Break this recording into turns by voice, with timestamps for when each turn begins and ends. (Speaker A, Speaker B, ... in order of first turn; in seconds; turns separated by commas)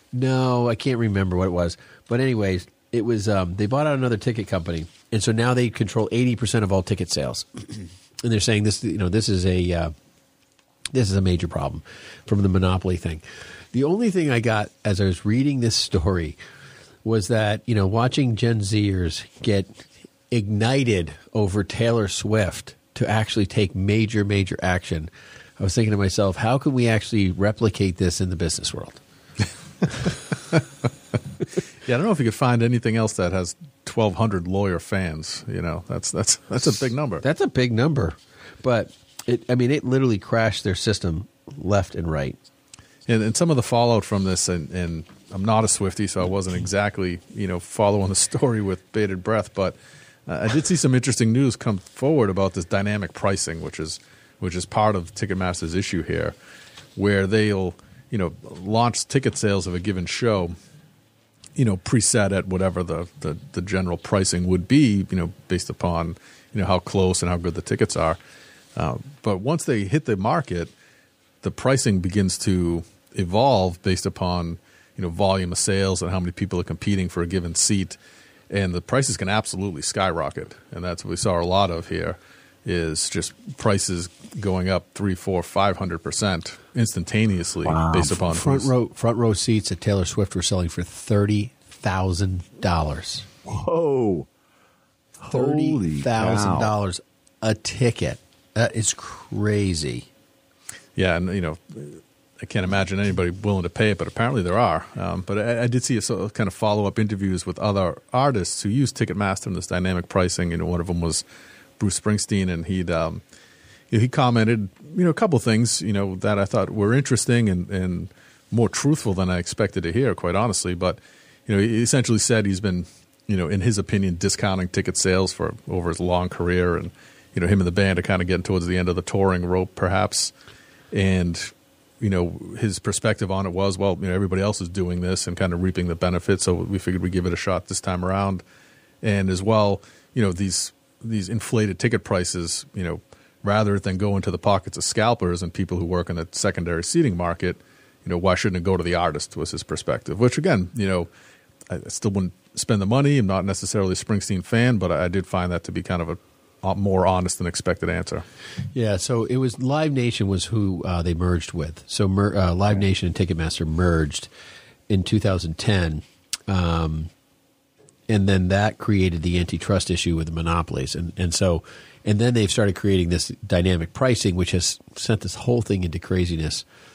Speaker A: 0.1-9.9, Speaker A: 10.9-16.4, Speaker A: 17.0-29.0, Speaker B: 31.9-37.2, Speaker A: 37.2-42.4, Speaker B: 43.1-49.8, Speaker B: 50.3-56.4, Speaker B: 57.0-60.5, Speaker B: 61.5-68.2, Speaker B: 68.8-70.7, Speaker B: 71.4-78.0, Speaker B: 78.5-88.7, Speaker C: 87.7-88.1, Speaker A: 87.9-93.3, Speaker C: 93.5-94.3, Speaker C: 95.2-96.7, Speaker A: 95.3-100.1, Speaker B: 101.0-111.2, Speaker B: 111.8-113.2, Speaker B: 113.9-130.3, Speaker B: 130.9-138.4, Speaker B: 139.0-151.1, Speaker B: 151.7-158.2, Speaker A: 158.7-164.3, Speaker A: 164.9-167.1, Speaker A: 168.1-176.7